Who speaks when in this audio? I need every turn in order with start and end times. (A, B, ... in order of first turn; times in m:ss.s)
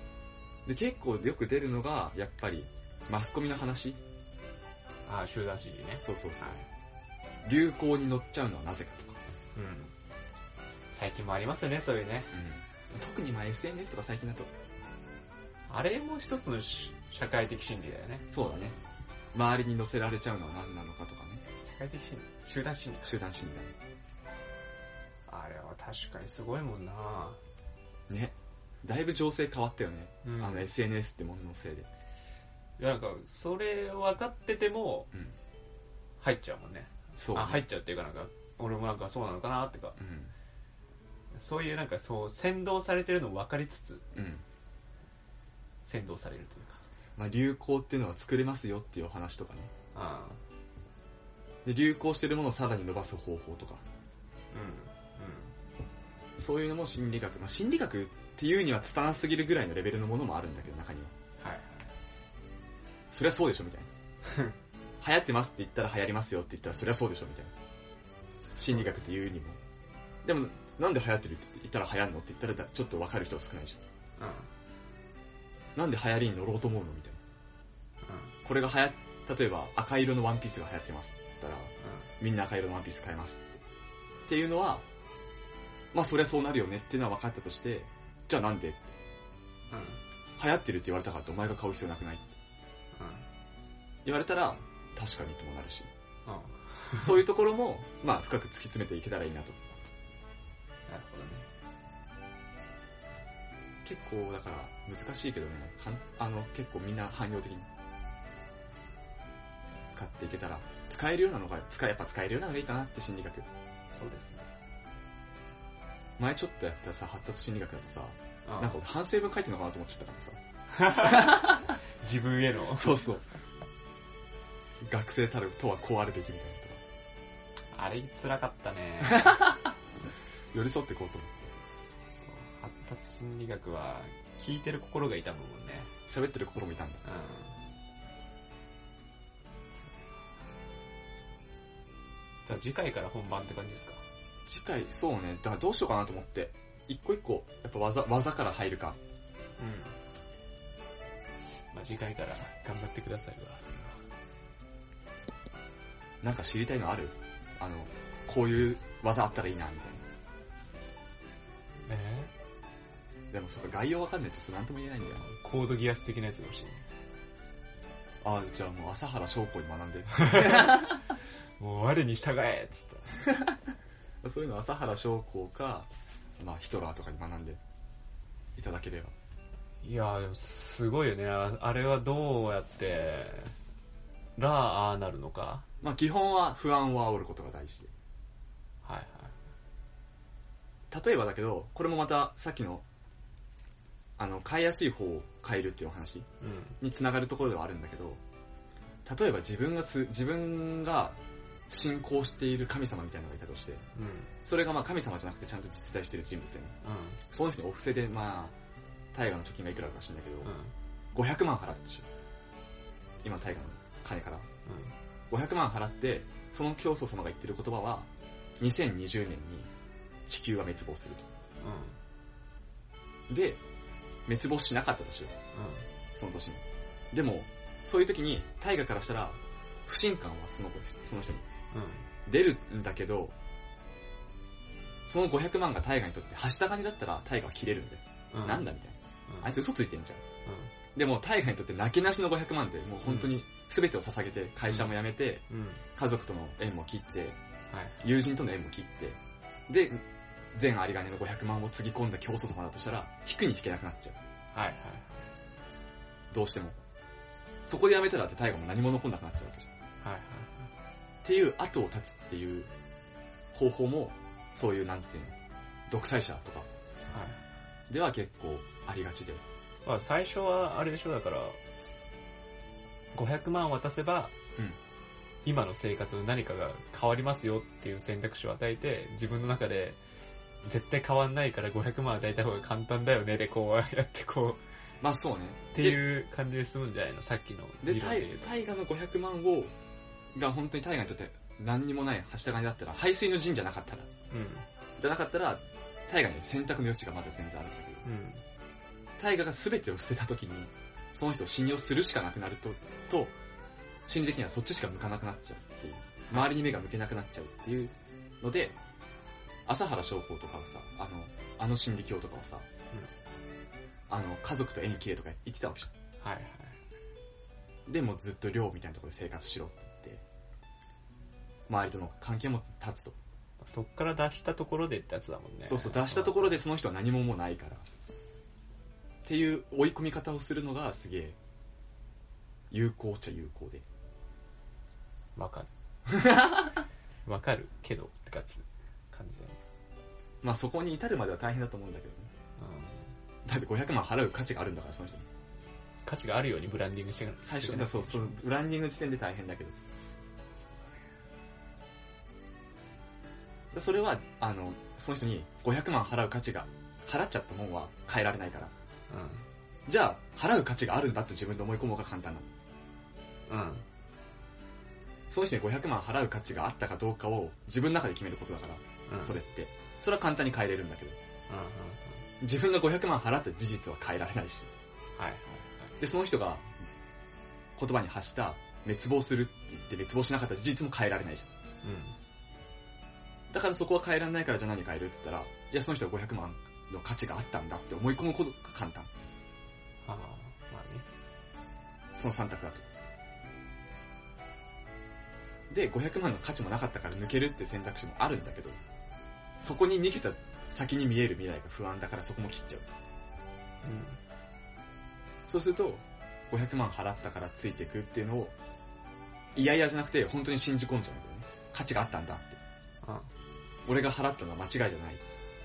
0:00.7-0:04.0 A
0:05.1-0:06.6 B
0:06.0-0:06.5 A
0:07.4-0:09.2 A
0:09.6-0:09.9 B
0:10.9-0:12.3 B
0:12.3-0:14.5 A
0:15.7-0:18.3 B
0:18.3-0:18.8 A
0:19.3-0:21.4 A
0:21.6-0:23.2 B
0:23.0-0:23.8 A
0:25.3-0:27.4 B
0:28.1-0:31.9 A
0:30.2-0:30.7 B
0:32.8-0:35.1 B
0:36.2-0:40.0 B
0:37.2-0:37.6 A
0:40.0-0:40.3 A
0:41.3-0:44.0 B
0:44.1-0:44.4 A
0:45.8-0:46.8 B
0:47.2-0:49.7 A
0:49.9-0:50.4 B
0:51.6-0:53.8 A
0:54.5-0:55.5 B
0:56.4-1:01.1 A
1:01.4-1:01.9 B
1:03.1-1:03.9 A
1:04.2-1:04.6 B
1:05.0-1:07.5 A
1:08.5-1:08.8 B
1:08.6-1:09.6 A
1:10.2-1:13.8 A
1:14.2-1:14.5 B
1:15.8-1:17.2 A
1:18.0-1:18.4 B
1:18.4-1:23.6 A
1:21.8-1:22.1 B
1:24.3-1:24.8 A
1:25.9-1:28.9 A
1:29.7-1:30.0 B
1:30.4-1:32.3 A
1:32.9-1:33.3 B
1:34.0-1:35.9 A
1:36.3-1:37.1 B
1:37.0-1:39.6 A
1:40.9-1:41.5 B
1:43.8-1:47.7 A
1:49.9-1:53.5 A
1:53.9-1:54.5 B
1:56.2-2:01.8 A
1:58.4-1:58.8 B
2:00.7-2:03.0 B
2:02.7-2:03.2 A
2:04.8-2:06.8 A
2:07.7-2:09.4 B
2:09.0-2:09.7 A
2:10.5-2:11.5 A
2:12.2-2:15.9 B
2:16.1-2:17.0 A
2:17.0-2:17.6 B
2:19.8-2:20.1 B
2:22.5-2:24.0 B
2:24.5-2:29.0 A
2:29.6-2:30.0 B
2:31.7-2:34.0 B
2:36.2-2:40.0 A
2:41.9-2:42.3 B
2:43.3-2:45.3 A
2:45.2-2:46.8 B
2:48.2-2:51.0 A
2:50.1-2:51.0 B
2:51.6-2:53.2 B
2:53.2-2:53.6 A
2:54.2-2:55.9 A
2:56.4-2:57.6 A
2:58.6-2:59.1 A
2:59.8-3:03.5 B
3:04.4-3:05.7 B
3:05.8-3:07.9 A
3:08.8-3:09.3 B
3:10.9-3:12.8 A
3:14.2-3:16.3 A
3:16.4-3:16.8 B
3:16.8-3:18.2 A
3:19.0-3:21.2 A
3:21.7-3:23.8 A
3:24.0-3:24.3 B
3:24.4-3:26.7 A
3:26.8-3:27.2 B
3:27.3-3:28.5 A
3:29.1-3:30.5 A
3:30.4-3:30.7 B
3:31.1-3:32.1 A
3:33.2-3:34.5 A
3:34.7-3:34.9 B
3:35.3-3:38.1 A
3:38.6-3:39.7 A
3:40.3-3:41.3 A
3:41.6-3:42.0 B
3:43.3-3:43.6 A
3:44.3-3:45.3 A
3:45.5-3:45.9 B
3:46.1-3:51.4 A
3:51.7-3:52.1 B
3:52.3-3:53.4 A
3:55.1-4:00.2 A
3:58.3-3:58.7 B
3:59.3-3:59.5 B
4:00.5-4:00.7 B
4:01.0-4:05.4 A
4:03.0-4:03.4 B
4:05.5-4:05.8 B
4:06.0-4:07.4 A
4:07.7-4:08.0 B
4:08.0-4:14.2 A
4:14.5-4:15.3 B
4:16.3-4:16.8 A
4:17.6-4:19.7 A
4:20.0-4:20.7 B
4:21.2-4:22.7 A
4:23.5-4:25.4 A
4:25.9-4:26.7 A
4:27.1-4:27.4 B
4:27.9-4:29.4 A
4:29.8-4:31.6 B
4:33.1-4:34.4 B
4:35.4-4:40.0 B
4:40.6-4:44.6 B
4:45.0-4:46.0 A
4:45.7-4:48.5 B
4:47.8-4:49.7 A
4:50.3-4:54.1 A
4:54.3-4:54.7 B
4:55.0-4:58.0 A
4:58.0-4:58.4 B
4:59.2-5:03.3 A
5:04.1-5:08.8 A
5:09.7-5:12.7 A
5:14.1-5:15.9 A
5:16.2-5:16.8 B
5:17.9-5:20.2 A
5:21.7-5:23.2 A
5:23.6-5:26.6 B
5:25.6-5:27.9 A
5:29.2-5:31.4 A
5:32.7-5:33.8 A
5:35.4-5:35.7 B
5:36.1-5:36.8 A
5:37.2-5:39.6 B
5:40.4-5:42.3 A
5:42.6-5:43.1 B
5:43.4-5:45.3 A
5:46.0-5:48.4 B
5:47.4-5:49.8 A
5:50.7-5:50.9 B
5:53.7-5:58.7 A
5:59.1-5:59.5 B
5:59.9-6:02.5 A
6:03.5-6:03.8 B
6:05.3-6:11.2 A
6:09.1-6:09.4 B
6:11.5-6:12.2 B
6:12.4-6:14.7 A
6:15.2-6:15.9 B
6:16.0-6:16.7 A
6:17.8-6:21.5 A
6:21.8-6:22.2 B
6:23.5-6:29.1 A
6:30.0-6:31.1 B
6:32.2-6:32.9 A
6:35.7-6:38.8 A
6:39.6-6:42.9 A
6:43.8-6:44.2 B
6:45.5-6:48.5 A
6:49.6-6:52.6 A
6:53.0-6:53.3 B
6:53.8-6:55.2 A